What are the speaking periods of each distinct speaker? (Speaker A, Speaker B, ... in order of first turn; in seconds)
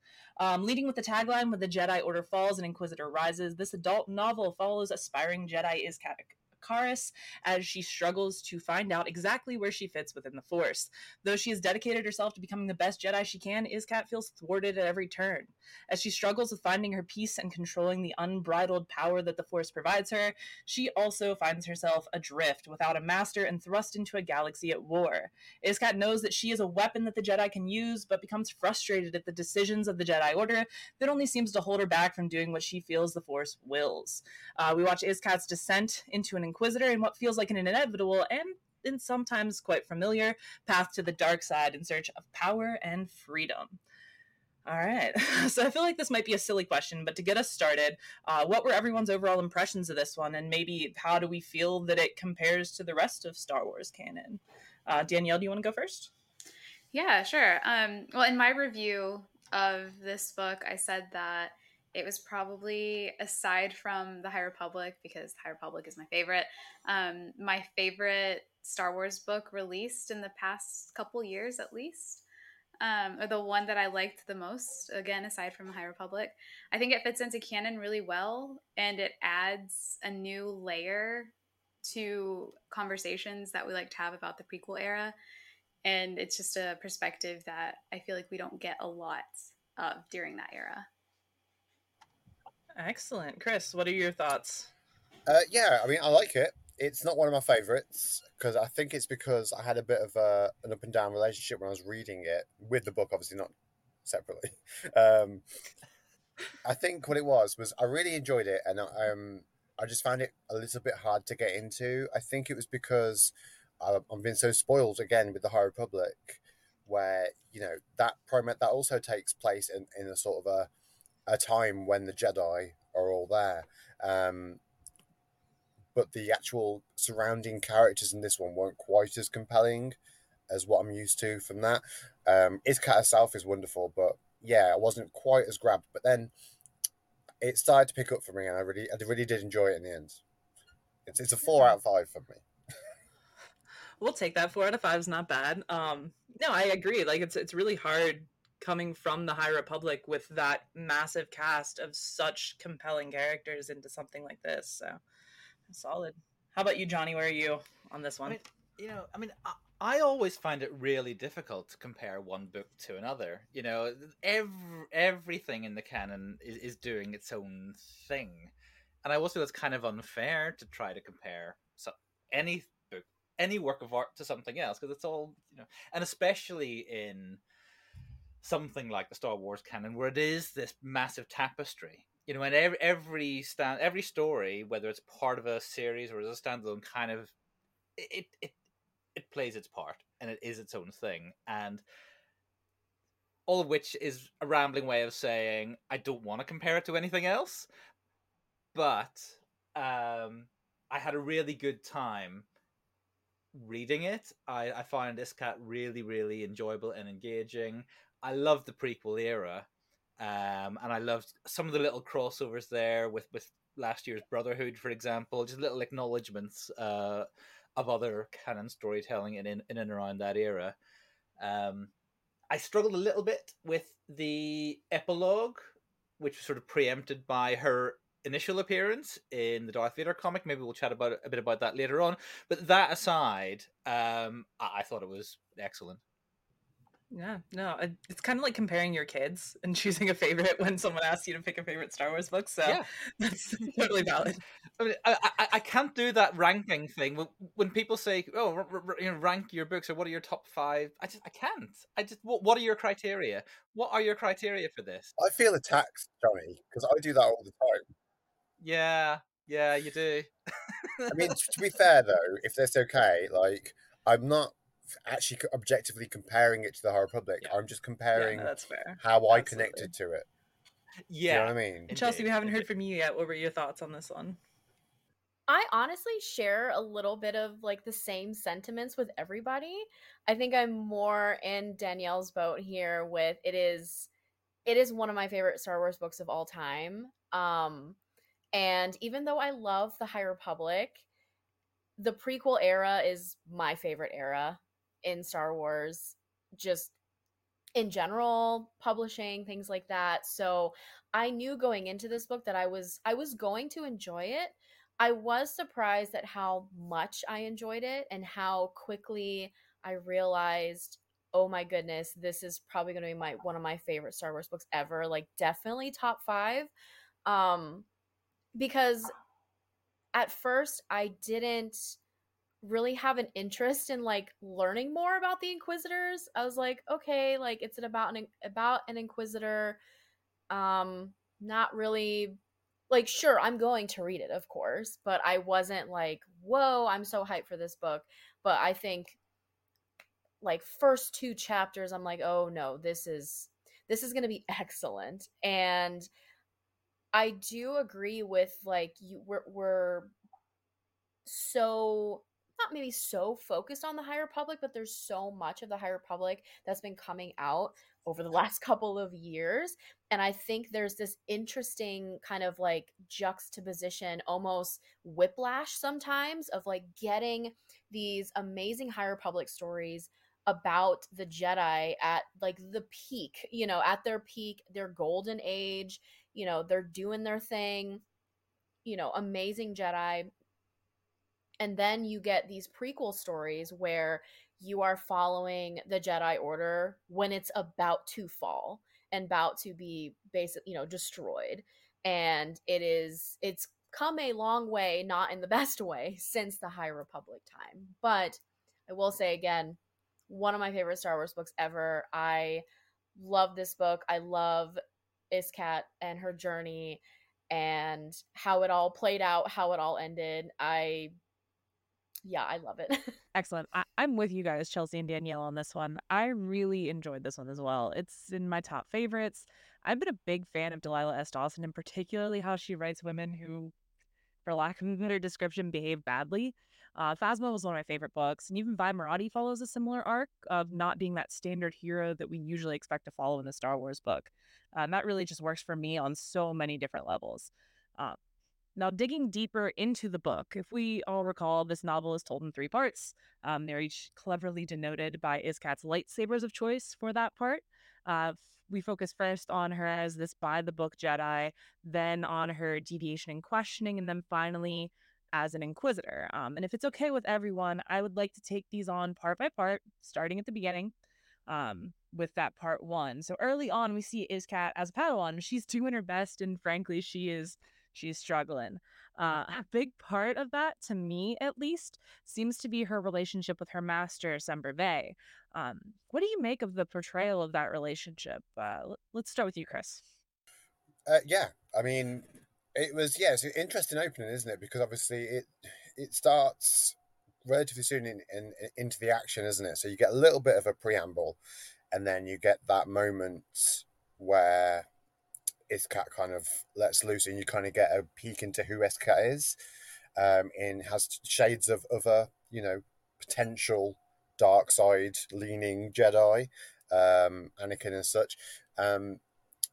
Speaker A: 0.4-43.8, 44.6-56.1, 92.8-94.7, 144.0-155.0, 155.7-158.4, 237.1-244.4, 268.1-269.9, 271.9-274.4
Speaker B: 56.9-72.2, 72.8-85.1, 85.8-90.9
Speaker C: 95.3-103.5, 104.0-105.4, 106.6-120.7, 121.3-124.6, 125.9-129.9, 130.5-136.3, 137.4-140.2, 141.1-142.4, 255.2-257.9, 261.1-270.3, 271.3-271.9, 481.1-491.4, 491.9-494.9, 495.7-499.5, 500.1-509.2
Speaker D: 158.2-168.5, 169.0-177.4, 178.4-187.3, 188.0-188.5, 189.1-191.8, 193.5-197.7, 198.7-202.4, 203.5-209.7, 210.2-220.8, 221.4-221.9, 222.5-236.0, 244.8-255.1, 258.6-261.5, 271.1-272.7
Speaker E: 275.5-284.1, 284.6-288.0, 288.5-291.0, 292.0-296.9, 297.8-316.7, 317.2-317.9, 318.5-319.1, 320.1-322.0, 322.6-329.8, 330.5-332.4, 332.9-339.2, 340.4-346.1, 347.1-350.1, 351.2-378.0, 378.8-380.3, 381.6-399.8, 400.3-402.6, 403.1-404.8, 405.3-411.1, 412.2-413.2
Speaker F: 413.3-423.7, 424.4-438.2, 438.8-460.9, 461.5-480.0